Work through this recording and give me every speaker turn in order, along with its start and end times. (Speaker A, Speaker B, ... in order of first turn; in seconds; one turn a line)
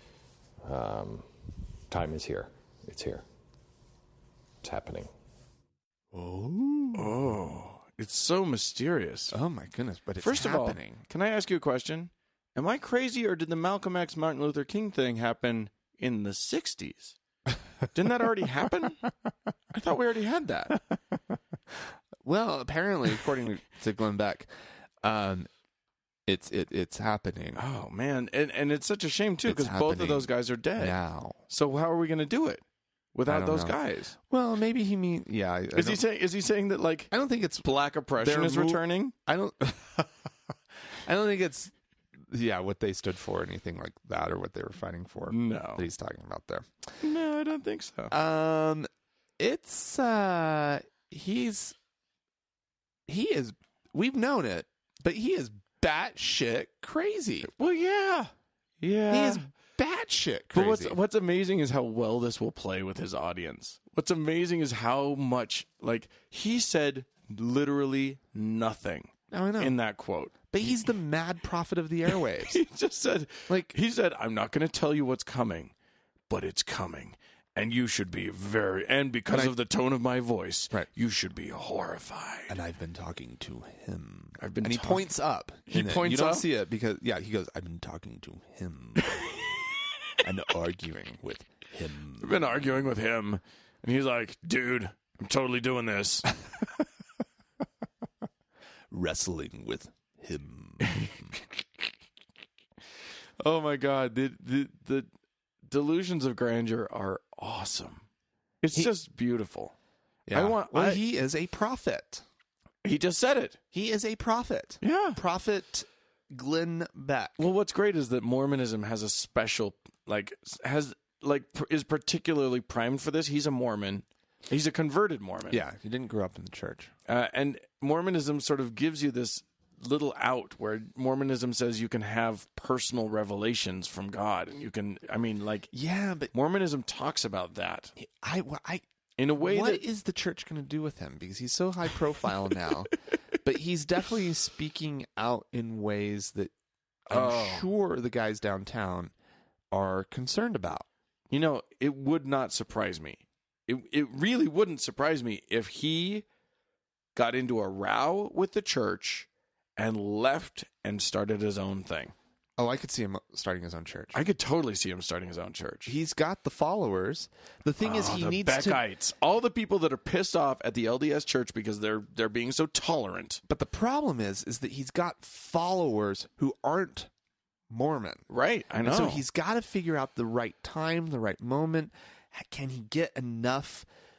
Speaker A: 0.6-1.3
Speaker A: 1.9-3.2
Speaker A: 4.6-5.1
Speaker B: 6.1-7.1
Speaker C: 6.9-9.3
Speaker B: 9.3-11.0
Speaker C: 10.2-17.2
Speaker C: 17.9-19.0
Speaker C: 19.7-20.8
Speaker B: 22.2-24.5
Speaker B: 25.0-25.5
Speaker B: 26.2-27.6
Speaker C: 27.6-31.0
Speaker B: 29.4-31.4
Speaker C: 31.5-32.6
Speaker C: 33.1-34.1
Speaker B: 33.3-36.0
Speaker C: 35.7-39.1
Speaker B: 37.1-40.1
Speaker B: 41.0-41.7
Speaker B: 42.2-46.7
Speaker C: 45.3-45.9
Speaker C: 47.0-48.1
Speaker B: 48.1-48.9
Speaker B: 49.4-51.7
Speaker B: 53.1-57.5
Speaker C: 57.4-59.5
Speaker B: 59.1-61.0
Speaker C: 60.5-70.8
Speaker B: 69.3-69.8
Speaker B: 70.5-72.6
Speaker C: 72.1-75.7
Speaker B: 73.5-73.7
Speaker C: 76.3-82.6
Speaker B: 82.5-89.3
Speaker C: 84.4-85.1
Speaker C: 85.7-86.5
Speaker B: 90.2-92.5
Speaker C: 92.2-96.3
Speaker B: 98.9-101.3
Speaker C: 100.8-101.1
Speaker C: 103.4-105.1
Speaker C: 105.7-108.0
Speaker C: 108.6-109.7
Speaker B: 110.3-112.2
Speaker C: 110.3-111.0
Speaker C: 112.8-113.6
Speaker B: 113.7-117.4
Speaker C: 114.8-115.2
Speaker C: 117.4-125.6
Speaker B: 125.5-126.9
Speaker C: 127.1-135.7
Speaker B: 135.7-136.3
Speaker C: 136.3-137.9
Speaker B: 138.0-138.8
Speaker C: 139.2-139.8
Speaker B: 139.4-146.5
Speaker B: 147.1-149.1
Speaker C: 147.1-147.7
Speaker B: 149.7-150.8
Speaker C: 151.3-156.2
Speaker C: 157.1-162.1
Speaker B: 162.6-164.2
Speaker C: 164.1-165.9
Speaker B: 165.8-168.8
Speaker C: 167.8-173.4
Speaker B: 173.5-177.1
Speaker B: 177.7-178.2
Speaker C: 178.3-179.2
Speaker B: 178.8-183.9